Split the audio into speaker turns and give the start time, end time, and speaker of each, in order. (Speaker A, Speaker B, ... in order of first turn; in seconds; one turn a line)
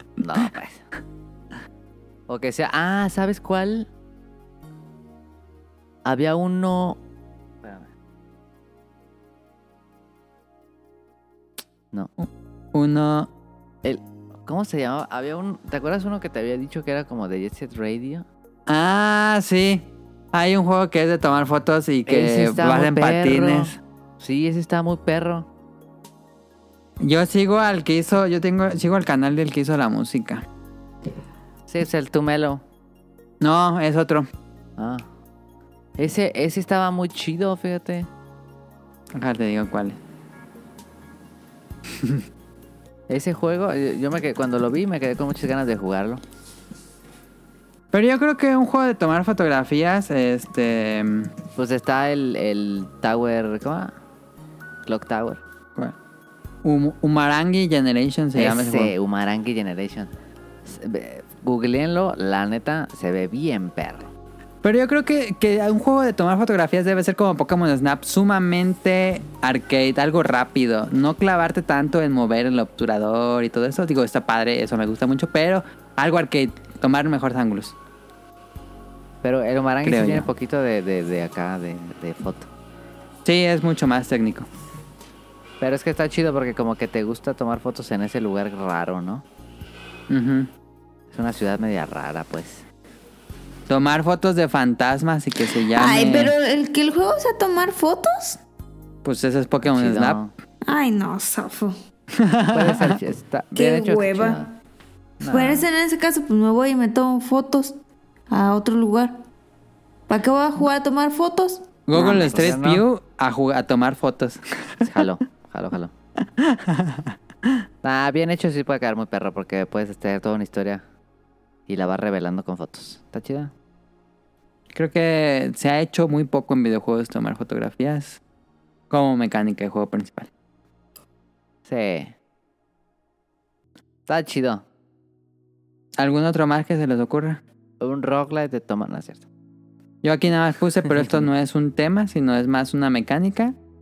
Speaker A: 0.2-0.8
Speaker A: 2.3-3.9
Speaker A: 6.0-7.0
Speaker A: 7.6-7.9
Speaker B: 12.2-13.3
Speaker A: 13.8-18.3
Speaker B: 18.7-23.8
Speaker A: 22.1-25.5
Speaker B: 27.0-30.4
Speaker A: 31.7-32.6
Speaker B: 33.4-34.3
Speaker A: 34.8-35.1
Speaker A: 36.0-38.1
Speaker B: 39.1-40.0
Speaker A: 43.1-46.2
Speaker B: 47.9-51.3
Speaker A: 51.6-53.9
Speaker A: 54.9-55.4
Speaker B: 56.6-58.9
Speaker A: 58.4-60.1
Speaker A: 60.6-64.1
Speaker B: 64.6-77.8
Speaker A: 79.2-82.5
Speaker B: 79.8-80.3
Speaker B: 83.2-84.5
Speaker A: 85.6-89.2
Speaker B: 90.1-90.5
Speaker A: 91.1-92.6
Speaker B: 93.7-96.3
Speaker C: 95.6-98.4
Speaker B: 99.0-100.2
Speaker A: 99.7-100.3
Speaker C: 100.7-101.8
Speaker B: 102.2-103.0
Speaker A: 102.5-104.5
Speaker C: 103.5-104.5
Speaker A: 105.2-105.7
Speaker C: 105.3-107.8
Speaker C: 108.3-109.2
Speaker C: 110.1-112.3
Speaker B: 111.9-114.9
Speaker A: 111.9-112.8
Speaker A: 114.8-115.9
Speaker B: 116.4-117.6
Speaker A: 117.8-120.8
Speaker A: 121.7-123.5
Speaker B: 124.7-128.2
Speaker B: 128.9-130.3
Speaker A: 131.7-132.1
Speaker A: 134.1-134.7
Speaker B: 136.0-137.4
Speaker A: 137.8-139.2
Speaker B: 140.0-143.6
Speaker A: 141.0-141.3